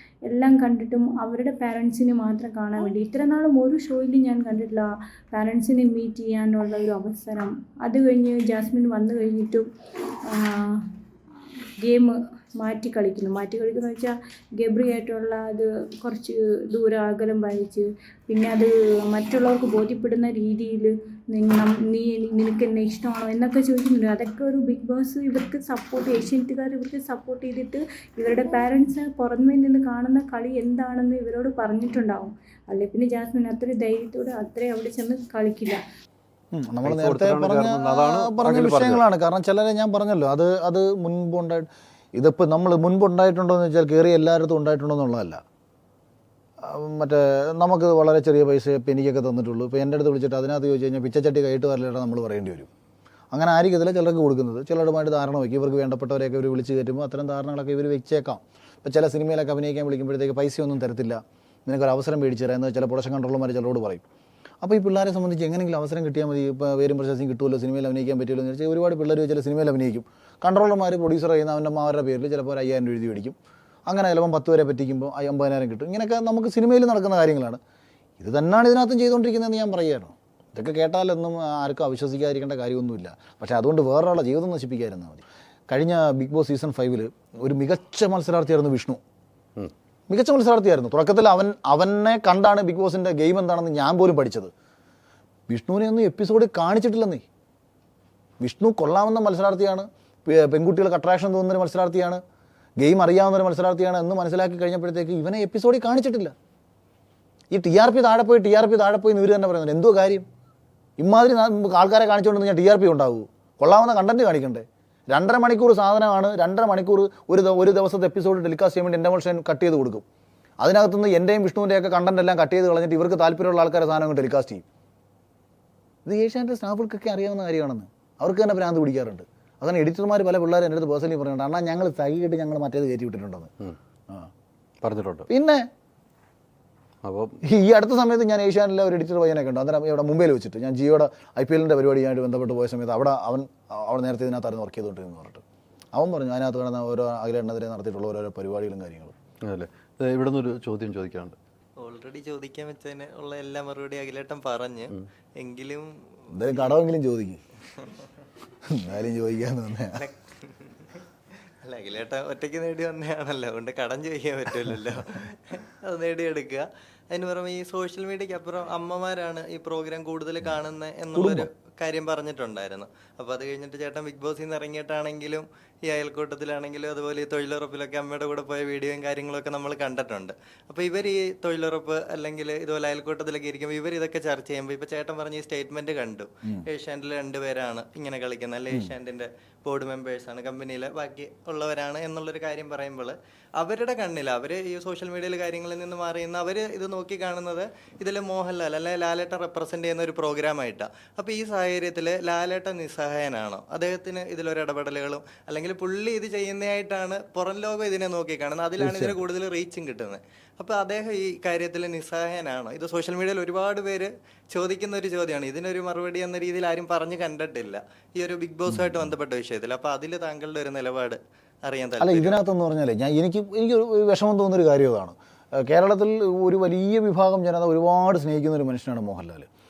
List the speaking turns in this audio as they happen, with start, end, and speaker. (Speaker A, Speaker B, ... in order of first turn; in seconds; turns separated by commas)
Speaker A: 0.3-9.6, Speaker A: 10.3-10.8, Speaker A: 11.8-35.8, Speaker B: 36.5-45.4, Speaker C: 36.8-39.0, Speaker B: 46.6-52.7, Speaker B: 53.3-64.0, Speaker B: 64.6-73.3, Speaker B: 73.9-77.6, Speaker B: 78.2-89.0, Speaker B: 90.1-94.5, Speaker B: 95.5-97.2, Speaker B: 98.4-102.2, Speaker B: 102.8-106.3, Speaker B: 107.5-110.2, Speaker B: 111.0-120.0, Speaker B: 120.6-124.6, Speaker B: 126.0-133.5, Speaker C: 134.8-135.2, Speaker B: 135.3-135.7, Speaker C: 137.0-137.3, Speaker B: 137.5-145.4, Speaker B: 145.9-149.1, Speaker C: 149.4-151.4, Speaker D: 151.8-155.8, Speaker B: 156.3-157.4, Speaker D: 156.4-156.7, Speaker B: 158.7-160.0, Speaker D: 159.9-160.7, Speaker D: 161.6-222.4, Speaker B: 171.1-171.5, Speaker B: 222.0-229.5